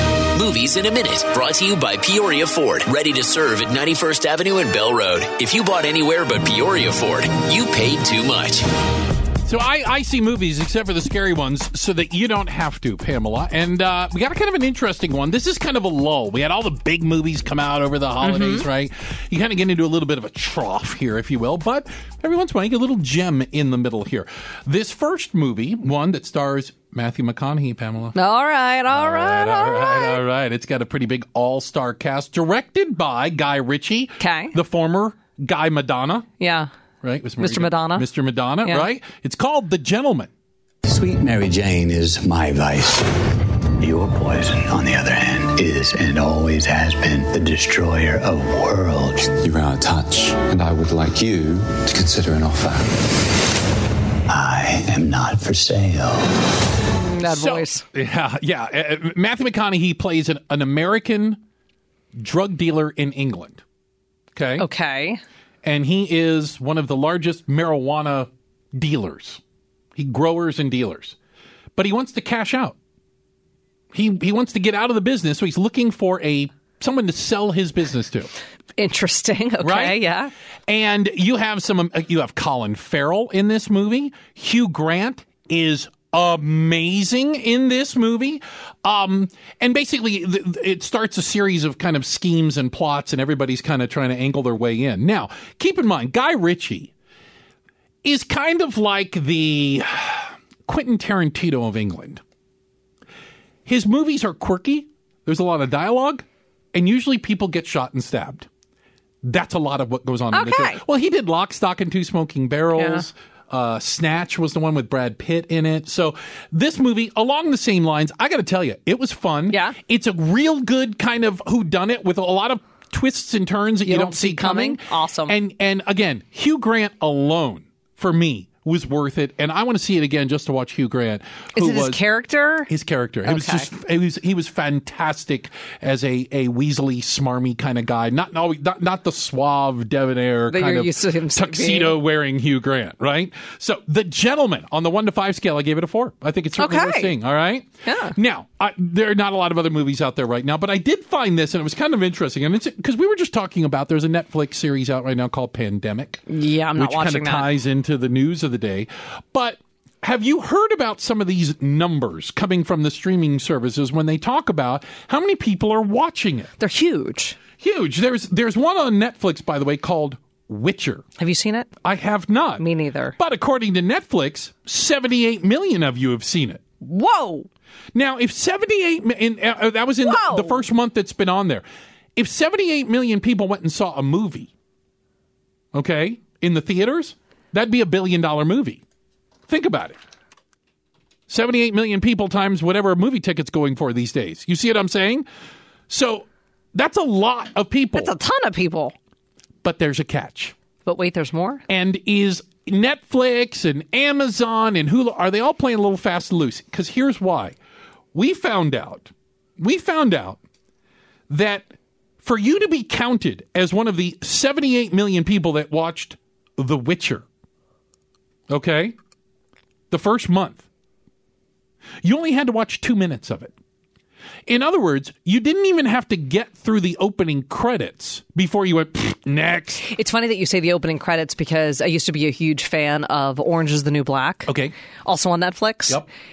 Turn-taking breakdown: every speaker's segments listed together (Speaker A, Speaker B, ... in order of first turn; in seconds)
Speaker A: 0.3-8.6
Speaker B: 9.4-28.2, 28.9-36.3, 37.0-40.3, 57.2-61.4, 62.2-63.6, 64.3-64.7, 65.6-69.4, 70.0-71.2, 71.8-72.8, 73.9-78.3, 79.6-80.0, 80.7-96.9, 98.0-102.2, 103.7-108.5, 109.2-132.0, 132.7-166.5, 167.6-171.0, 171.8-172.6, 173.2-176.6, 177.9-181.6, 182.2-184.5, 185.7-188.8, 189.5-190.0, 191.3-195.2, 195.9-198.1, 199.6-200.5, 201.7-207.6, 208.1-210.4, 211.3-211.7, 212.2-217.2, 218.5-218.9, 219.9-220.6, 222.0-223.5, 224.5-229.8, 234.5-234.7
Speaker C: 18.2-18.7, 28.1-30.2, 34.2-34.6, 36.4-36.7, 37.4-38.1, 38.6-38.9, 57.0-57.8, 64.6-65.2, 78.8-80.3, 110.3-110.8, 112.7-113.0, 119.5-119.8, 123.8-125.3, 131.5-132.7, 133.2-133.7, 140.5-142.0, 146.6-147.2, 147.8-148.2, 156.3-157.5, 166.6-167.4, 171.2-171.7, 172.6-173.1, 176.8-177.5, 180.0-180.6, 197.9-198.9, 200.8-201.6, 229.8-234.5, 235.0-236.0
Speaker D: 40.8-43.0, 43.8-49.3, 54.3-56.3
Speaker E: 49.4-52.9